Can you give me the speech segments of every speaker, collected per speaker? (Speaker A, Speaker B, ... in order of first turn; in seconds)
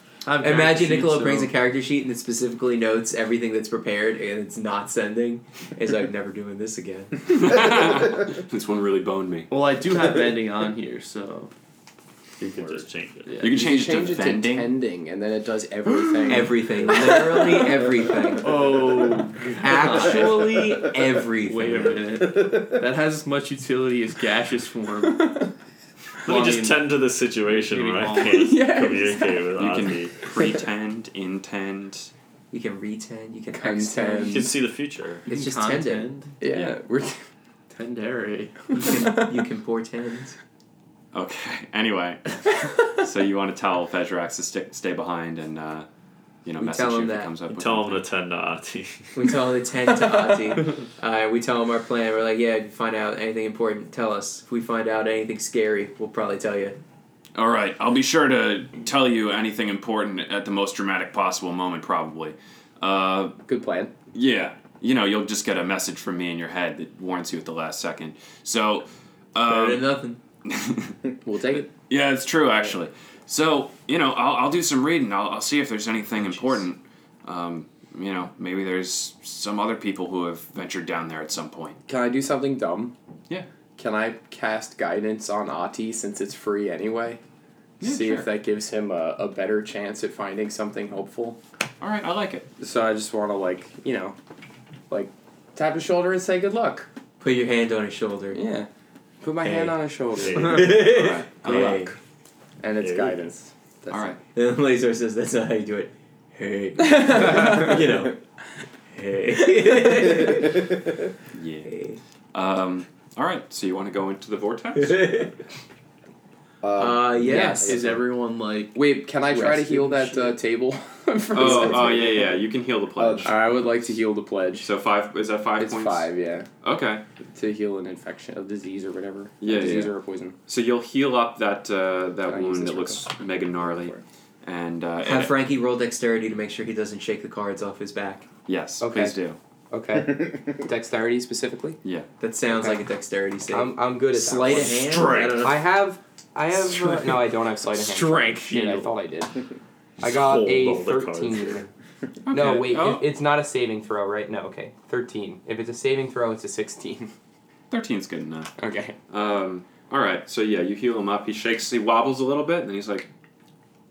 Speaker A: 0.2-1.5, 9.5-11.5, 13.2-13.7, 18.4-20.8, 21.4-25.5, 26.3-26.9, 27.6-28.6, 35.3-36.4, 37.7-39.1, 117.3-120.3
Speaker B: 0.4-7.7, 16.3-18.7, 19.6-22.0, 32.5-34.5, 35.3-36.1, 38.7-40.4, 46.6-47.3, 49.1-56.8, 69.4-70.2, 97.2-98.4, 100.4-101.9, 104.3-108.2, 108.9-110.7, 111.7-112.0, 114.8-115.3, 116.8-117.8, 135.0-138.3, 142.2-145.6
Speaker C: 7.3-9.5, 13.4-14.8, 29.6-32.1, 36.5-36.8, 41.1-45.9, 46.5-48.1, 57.4-63.4, 64.1-69.9, 70.5-71.0, 71.8-81.8, 87.8-88.3, 91.8-92.5, 100.8-101.8, 103.9-104.2, 111.3-115.3, 121.3-123.4, 124.6-126.1, 126.6-127.0, 129.4-129.9, 130.5-135.3, 138.5-139.4, 152.3-153.1, 157.7-158.5, 159.1-163.1
Speaker D: 12.4-13.5, 26.3-30.3, 34.2-35.3, 47.5-49.4, 99.5-101.0, 102.8-103.3, 144.5-145.6, 146.9-147.1, 147.8-148.8, 150.0-151.6
Speaker E: 13.5-17.9, 25.2-25.5, 28.2-29.5, 33.5-34.5, 36.4-37.2, 63.5-63.9, 71.2-71.7, 81.9-82.9, 83.8-87.2, 87.8-91.4, 92.6-94.2, 94.9-96.9, 98.3-98.7, 99.2-100.9, 101.5-101.8, 102.6-104.2, 106.9-107.8, 117.2-118.0, 118.8-122.3, 123.2-124.7, 125.6-126.5, 127.3-130.3, 132.3-133.1, 138.8-139.2, 139.7-141.8, 142.5-142.8, 143.5-149.4, 150.0-151.7, 152.3-157.1, 158.6-159.0
Speaker F: 22.2-22.5, 116.6-118.0, 123.0-123.3